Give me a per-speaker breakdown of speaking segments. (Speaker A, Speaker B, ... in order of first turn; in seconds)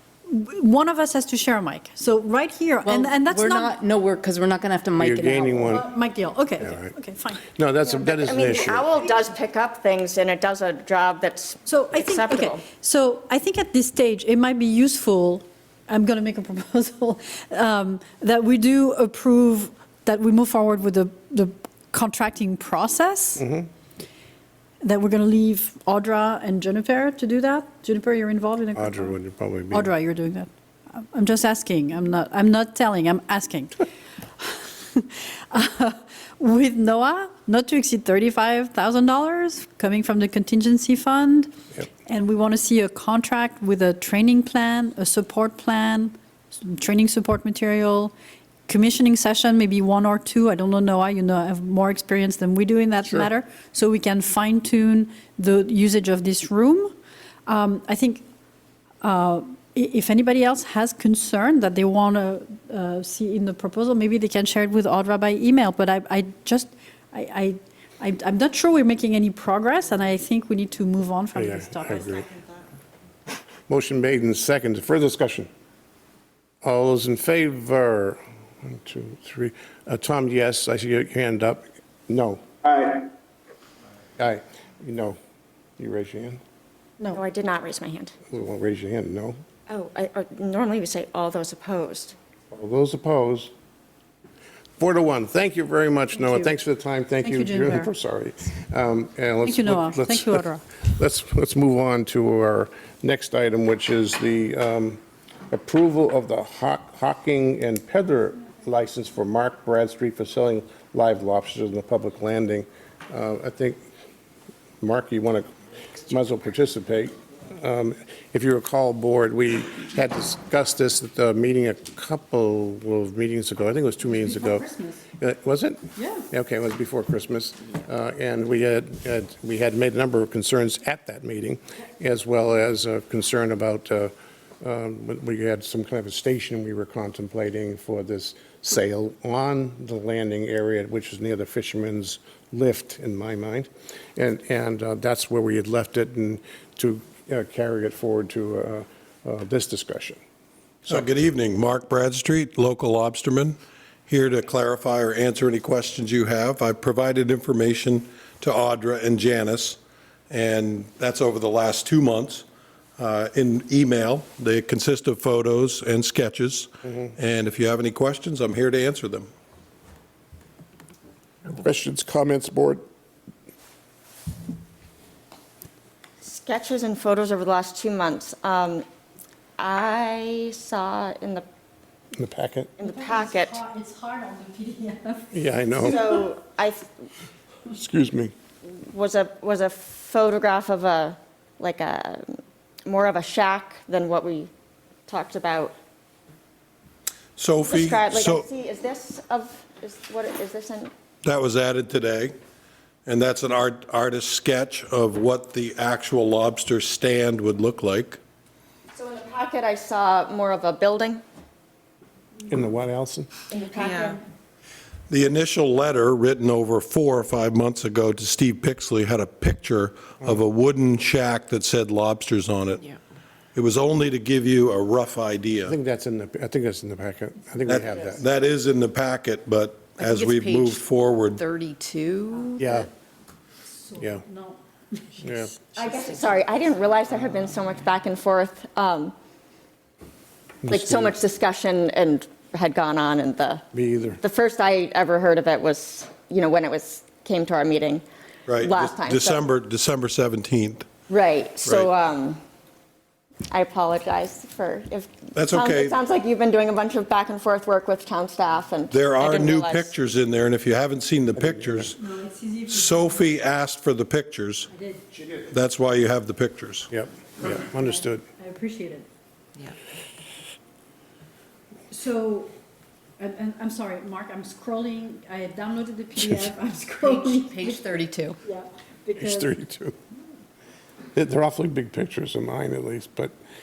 Speaker A: 0.3-3.8, 5.7-7.4, 11.7-23.5, 24.8-29.1, 29.7-33.8, 34.4-41.5, 42.0-48.1, 48.7-56.9, 57.5-58.2, 59.0-72.2, 96.1-96.5, 97.2-97.9, 99.4-100.6, 124.0-125.0, 126.0-126.2, 182.8-185.5, 233.7-236.1, 262.0-263.2, 264.7-265.0, 267.4-269.1, 271.9-272.5, 273.2-279.5
Speaker B: 2.8-5.8, 230.0-232.8, 277.0-278.4
Speaker C: 5.0-5.8, 6.6-6.9, 7.5-8.9, 23.4-23.7, 28.8-29.9, 71.3-72.2, 73.7-75.5, 76.6-83.0, 84.2-85.2, 85.8-86.4, 88.3-89.4, 92.5-93.5, 94.8-113.8, 114.8-150.2, 171.5-172.8, 182.1-182.7, 185.3-186.1, 187.7-188.3, 212.5-213.3, 225.6-228.3, 232.6-232.9, 234.0-234.2, 235.2-235.5, 240.6-241.2, 243.7-244.2, 261.4-261.9, 266.9-268.2, 279.2-279.9, 281.1-283.3
Speaker D: 7.8-12.6, 87.1-88.1, 89.7-92.2, 176.2-178.8, 179.6-181.4, 182.8-183.6, 185.8-186.9, 188.6-194.5, 195.1-195.7, 197.6-200.9, 208.9-211.2, 213.5-214.2, 235.8-239.1, 240.7-243.6, 244.2-248.0, 248.6-249.4, 251.1-252.4, 253.5-259.9
Speaker E: 150.9-153.6, 154.1-159.8, 160.3-162.4, 163.0-169.3, 197.4-198.5, 201.2-202.3, 203.1-208.2, 215.1-222.9, 223.5-225.8, 227.7-231.4, 248.5-250.9, 251.6-251.9, 255.3-256.0, 258.9-262.0, 262.7-264.7, 265.5-266.9